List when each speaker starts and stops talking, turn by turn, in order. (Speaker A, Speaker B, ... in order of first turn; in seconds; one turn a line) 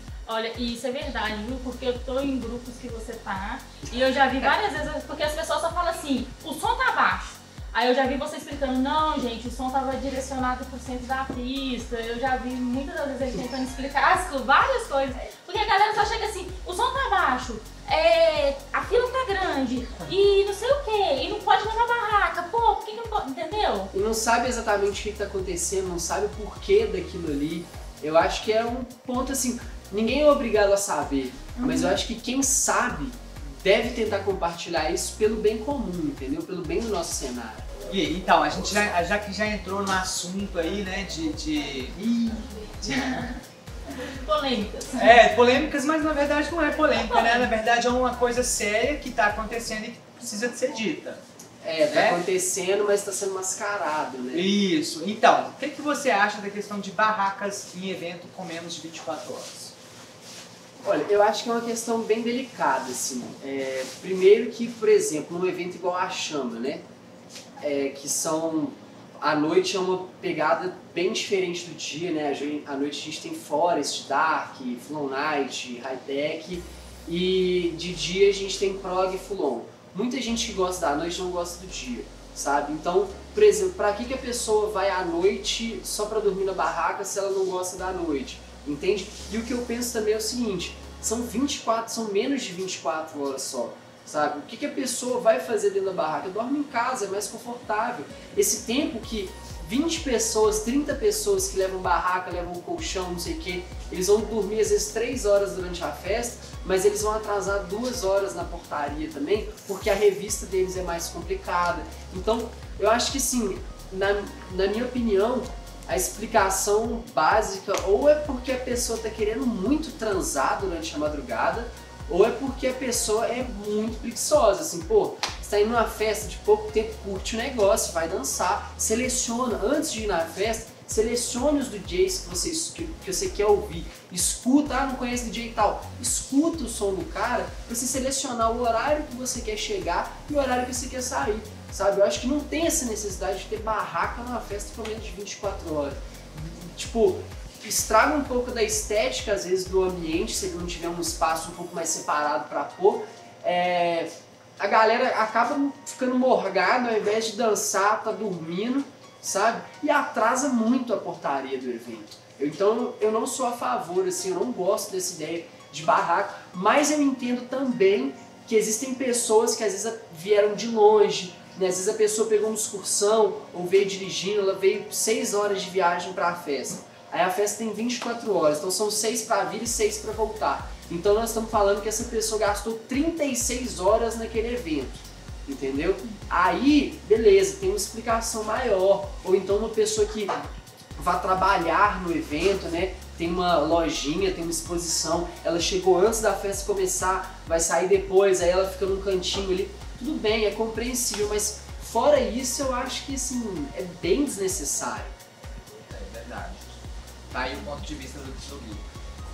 Speaker A: 0.2-23.9
Speaker B: 23.9-37.7
Speaker A: 31.6-32.0
Speaker C: 37.9-42.2
Speaker A: 42.7-45.2
Speaker C: 42.8-43.2
Speaker C: 45.0-51.2
Speaker B: 51.6-54.5
Speaker C: 51.9-52.2
Speaker C: 54.3-59.7
Speaker B: 60.8-66.8
Speaker B: 67.6-190.3
Speaker B: 191.0-205.1
Speaker C: 205.8-206.6
Speaker C: 207.3-208.8